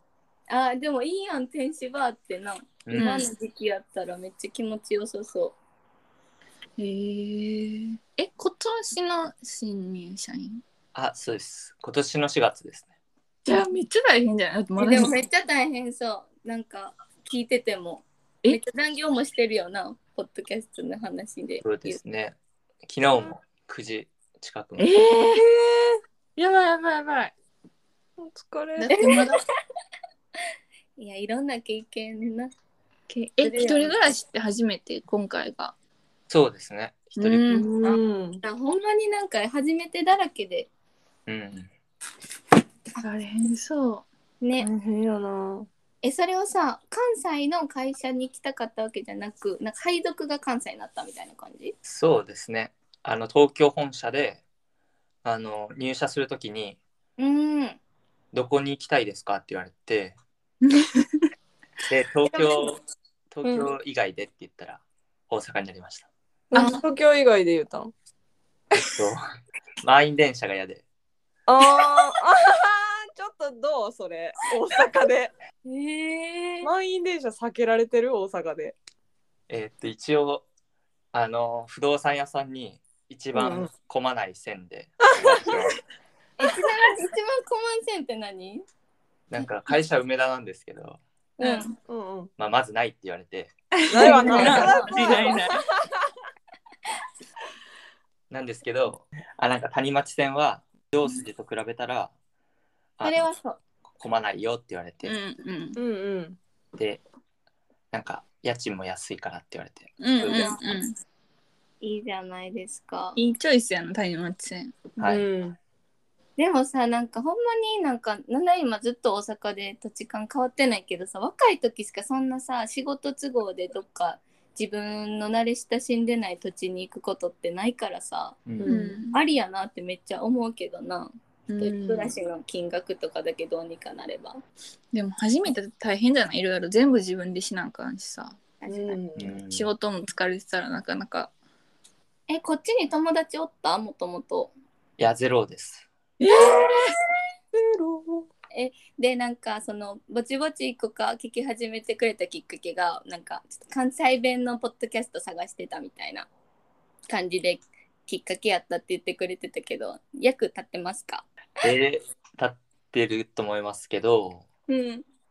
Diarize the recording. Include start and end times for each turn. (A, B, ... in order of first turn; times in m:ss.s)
0:00.5-0:05.6 A
0:02.9-0:03.3 B
0:06.8-0:10.6 B
0:10.9-0:12.9 C
0:13.4-0:15.2 B
0:14.8-0:22.0 A
0:21.6-0:22.3 C
0:22.8-0:24.9 C
0:24.8-0:25.4 B
0:25.1-0:26.0 D
0:26.4-0:27.3 B
0:28.2-0:29.1 D
0:28.8-0:29.4 B
0:28.9-0:29.4 A
0:31.0-0:32.5 A
0:33.1-0:35.7 B
0:33.4-0:34.0 A
0:36.3-0:37.6 C
0:37.2-0:37.7 B
0:37.5-0:38.4 D
0:37.8-0:40.7 A
0:41.3-0:41.7 C
0:43.0-0:44.0 B
0:44.4-0:44.7 A
0:44.6-0:45.7 D
0:46.0-0:51.7 A
0:51.8-0:54.4 C
0:55.2-0:56.8 C
0:57.2-0:57.8 A
0:58.3-1:00.2 C
1:00.6-1:01.3 B
1:01.8-1:06.1 C
1:02.3-1:02.6 A
1:03.4-1:03.7 A
1:06.5-1:07.9 D
1:06.5-1:06.8 A
1:08.8-1:09.2 C
1:09.8-1:10.8 C
1:11.4-1:15.3 D
1:15.6-1:16.7 A
1:16.6-1:18.8 D
1:19.5-1:20.4 C
1:21.1-1:25.8 C
1:23.3-1:23.7 D
1:26.4-1:28.6 A
1:29.3-1:31.0 C
1:31.4-1:31.8 A
1:31.4-1:31.7 B
1:31.9-1:32.3 D
1:32.4-1:33.5 C
1:33.8-1:35.6 B
1:33.9-1:35.7 D
1:34.0-1:35.4 A
1:34.4-1:34.7 C
1:38.3-1:42.1 C
1:43.0-1:43.3 C
1:43.0-1:43.6 A
1:44.0-1:45.1 C
1:45.0-1:45.8 B
1:45.8-1:46.4 D
1:47.9-1:50.5 C
1:50.0-1:50.9 B
1:50.3-1:50.6 A
1:51.8-1:53.2 A
1:53.2-1:54.8 B
1:55.0-1:55.2 C
1:55.0-1:55.6 D
1:56.4-2:08.5 A
2:08.6-2:09.0 D
2:08.6-2:09.2 B
2:09.1-2:14.4 A
2:11.5-2:12.1 B
2:14.9-2:18.4 B
2:18.6-2:19.0 A
2:18.7-2:19.3 D
2:19.2-2:19.7 C
2:19.5-2:21.3 B
2:22.3-2:24.5 A
2:25.0-2:25.9 C
2:26.2-2:26.7 D
2:26.2-2:26.8 B
2:27.5-2:28.3 D
2:28.5-2:36.3 A
2:37.1-2:41.3 A
2:41.6-2:44.4 C
2:44.7-2:45.0 A